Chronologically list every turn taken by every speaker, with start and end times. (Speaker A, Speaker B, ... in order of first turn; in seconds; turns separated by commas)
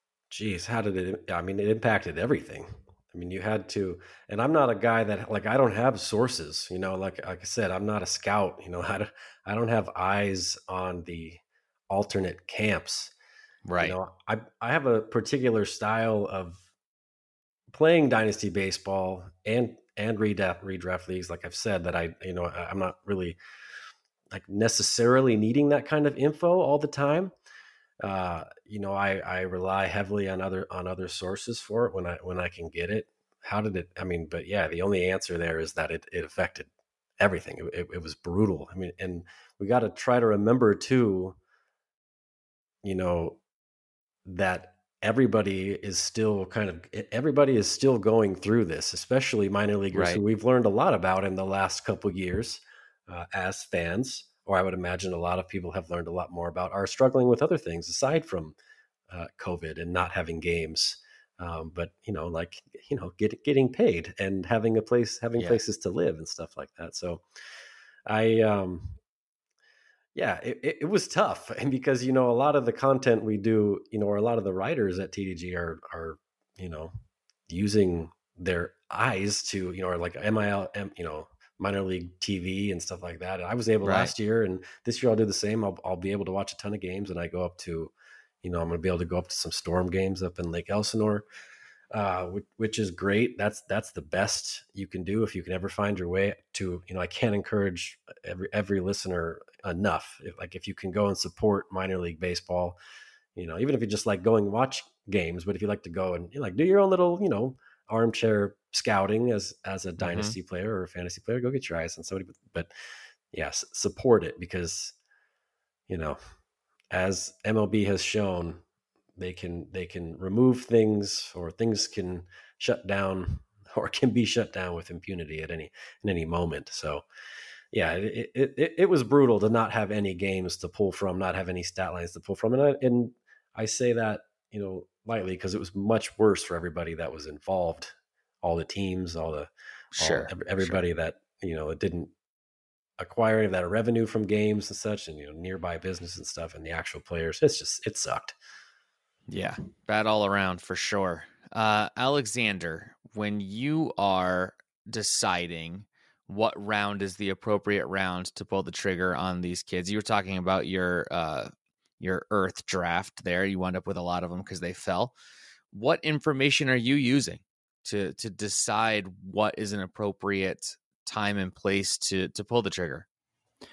Speaker A: 0.3-13.1, Speaker B: 13.7-14.0, Speaker A: 13.8-16.6, Speaker A: 17.7-23.4, Speaker A: 24.3-27.3, Speaker A: 28.0-36.7, Speaker A: 37.2-41.4, Speaker A: 42.8-43.4, Speaker A: 44.2-58.6, Speaker B: 49.9-50.2, Speaker A: 59.1-67.2, Speaker A: 68.1-69.0, Speaker A: 70.2-76.9, Speaker A: 77.5-87.9, Speaker B: 83.8-84.1, Speaker A: 88.4-91.3, Speaker A: 91.9-102.8, Speaker A: 103.3-112.7, Speaker B: 110.0-110.3, Speaker A: 113.3-115.0, Speaker A: 115.9-116.2, Speaker A: 116.9-118.6, Speaker A: 119.2-127.0, Speaker A: 127.7-142.1, Speaker B: 140.0-140.8, Speaker A: 143.0-148.3, Speaker B: 149.3-161.5, Speaker B: 162.0-165.1, Speaker B: 165.7-173.1